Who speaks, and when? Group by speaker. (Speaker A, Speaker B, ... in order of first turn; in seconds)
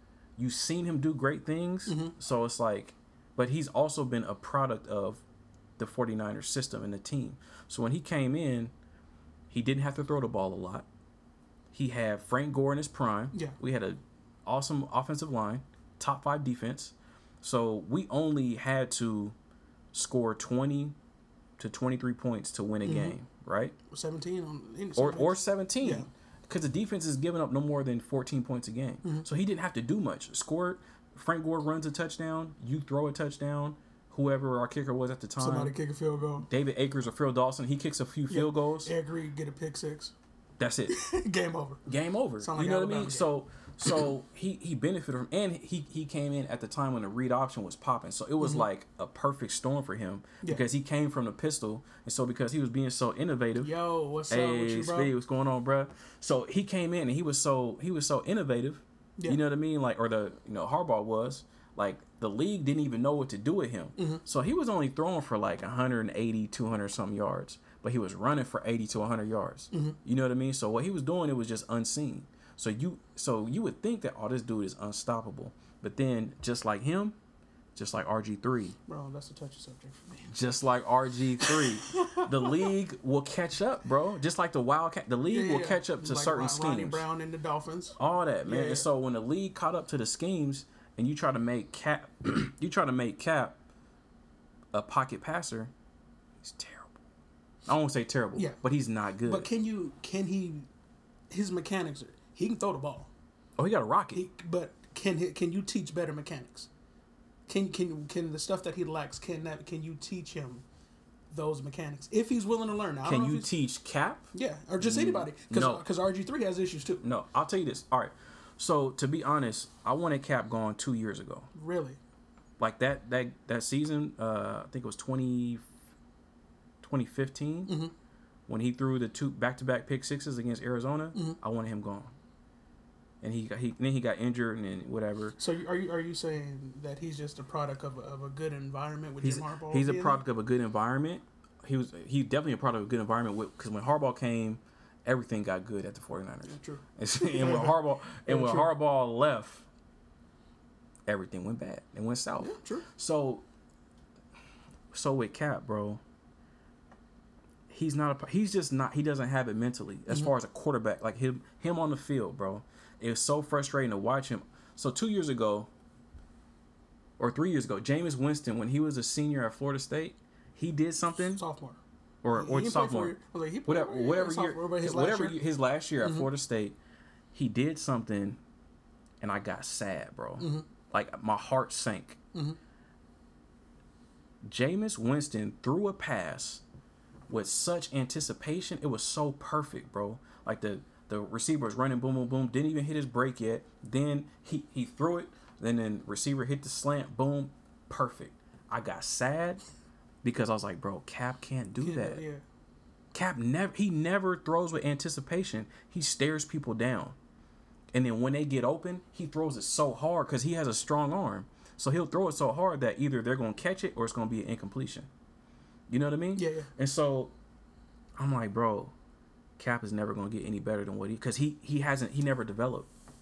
Speaker A: 0.4-5.2, 5.8-8.7, 9.5-10.8, 11.7-19.3, 19.9-20.9, 21.6-23.7, 24.9-35.7, 36.5-38.9, 40.6-41.0, 41.9-53.7, 54.3-77.2, 77.7-78.8, 80.3-87.0, 88.0-93.6, 94.7-95.7, 96.4-97.0, 97.7-99.5, 103.6-104.2, 113.0-115.8, 117.0-121.5, 122.6-125.7, 126.8-127.8, 128.5-132.1, 133.2-135.4, 139.2-149.6, 151.1-153.4, 154.9-156.0, 157.7-165.7, 167.2-171.4, 172.2-173.2, 173.7-176.8, 177.3-178.4, 179.2-182.2, 184.4-186.6, 187.3-199.6, 200.2-202.2, 203.1-207.2, 207.9-215.1, 215.9-217.3, 218.2-218.9, 219.6-222.9
Speaker B: 1.9-2.1, 22.8-23.1, 23.9-26.1, 35.4-36.5, 38.3-40.1, 40.9-43.3, 48.4-48.6, 53.6-55.1, 64.0-64.2, 69.7-70.0, 78.9-80.3, 81.4-82.7, 85.3-88.9, 98.3-98.6, 99.2-100.7, 101.3-103.1, 104.1-106.7, 107.5-110.6, 111.3-113.5, 114.3-117.0, 121.5-122.0, 127.7-127.9, 135.4-140.2, 146.4-148.7, 152.4-152.8, 171.3-171.8, 172.3-175.4, 176.0-176.3, 180.4-180.7, 201.8-202.4, 216.3-216.7